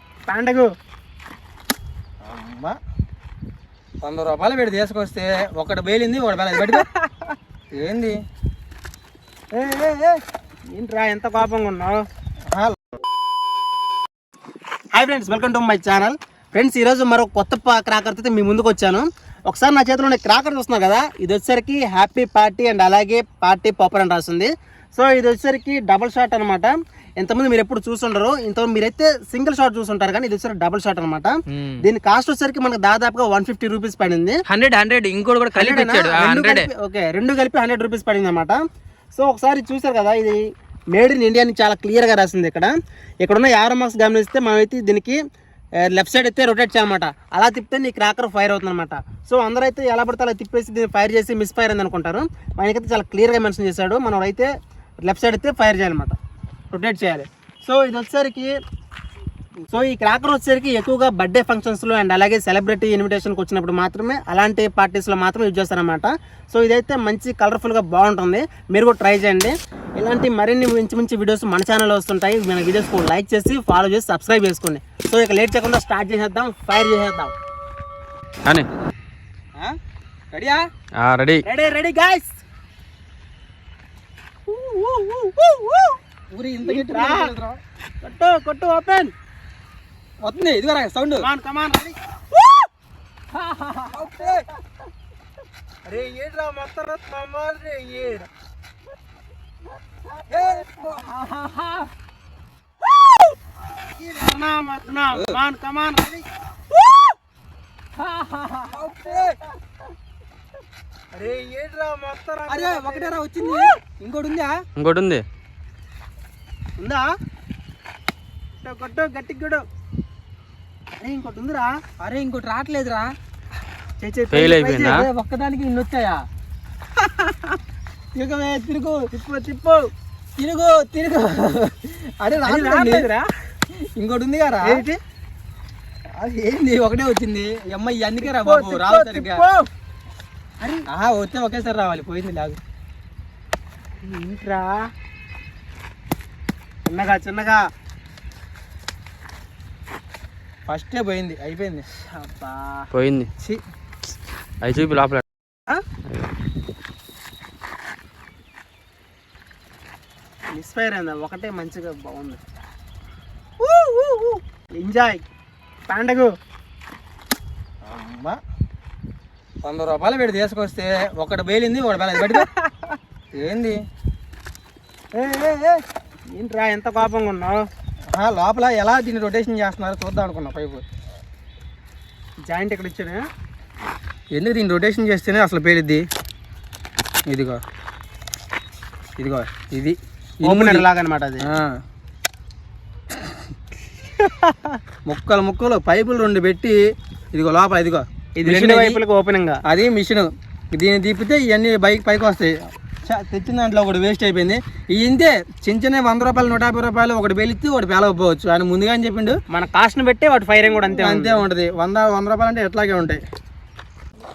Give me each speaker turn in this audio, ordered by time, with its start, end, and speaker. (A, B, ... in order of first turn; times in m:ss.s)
0:00.3-0:00.7 A
0:02.2-0:02.8 B
0:04.0-0:06.9 B
0:07.7-0:08.2 B
0:09.5-0:10.2 A
0:10.7-0:12.0 A
0:12.5-0:12.8 B
0:14.9-0:34.4 A
0:34.5-0:36.7 B
0:35.6-0:38.6 A
0:39.2-0:40.4 A
0:40.9-0:42.7 A
0:43.2-0:45.2 A
0:45.8-0:54.5 A
0:55.0-0:56.2 A
0:56.7-0:58.5 A
0:59.7-1:17.4 A
1:20.3-1:20.6 B
1:21.0-1:21.4 C
1:21.4-1:22.3 A
1:24.5-1:26.0 A
1:26.3-1:27.6 B
1:26.7-1:27.3 A
1:28.0-1:29.1 A
1:30.2-1:31.3 B
1:31.2-1:32.0 A
1:33.3-1:34.4 B
1:35.9-1:38.3 A
1:40.3-1:41.9 B
1:43.9-1:46.3 A
1:45.1-1:45.4 B
1:48.0-1:49.4 B
1:51.1-1:53.7 A
1:52.5-1:54.6 B
1:54.8-1:55.2 C
1:56.8-1:57.1 A
1:58.6-1:59.6 A
2:01.0-2:01.7 A
2:02.0-2:03.1 B
2:04.0-2:05.1 A
2:04.3-2:05.1 C
2:04.9-2:06.2 B
2:08.2-2:09.0 B
2:09.1-2:09.9 A
2:10.4-2:13.1 B
2:12.4-2:13.3 A
2:13.8-2:14.8 B
2:14.6-2:15.0 A
2:16.2-2:19.4 B
2:18.2-2:19.7 A
2:20.9-2:22.6 B
2:24.0-2:24.8 A
2:26.9-2:27.6 A
2:30.7-2:31.9 B
2:32.2-2:32.9 A
2:32.9-2:33.3 C
2:34.6-2:35.2 C
2:40.5-2:42.4 A
2:44.8-2:45.2 A
2:45.9-2:46.3 A
2:47.8-2:48.4 B
2:49.6-2:52.5 B
2:52.3-2:52.9 A
2:53.3-2:53.8 B
2:55.2-2:55.8 A
2:56.4-2:57.6 A
2:58.1-3:00.8 B
3:02.5-3:03.2 A
3:04.3-3:06.0 B
3:07.3-3:07.6 B
3:09.2-3:10.9 B
3:10.4-3:11.5 A
3:11.5-3:11.8 B
3:14.2-3:14.7 A
3:15.1-3:16.8 B
3:17.3-3:19.0 B
3:18.4-3:19.6 A
3:19.7-3:22.6 B
3:23.1-3:29.4 B
3:29.5-3:31.4 A
3:30.7-3:33.2 B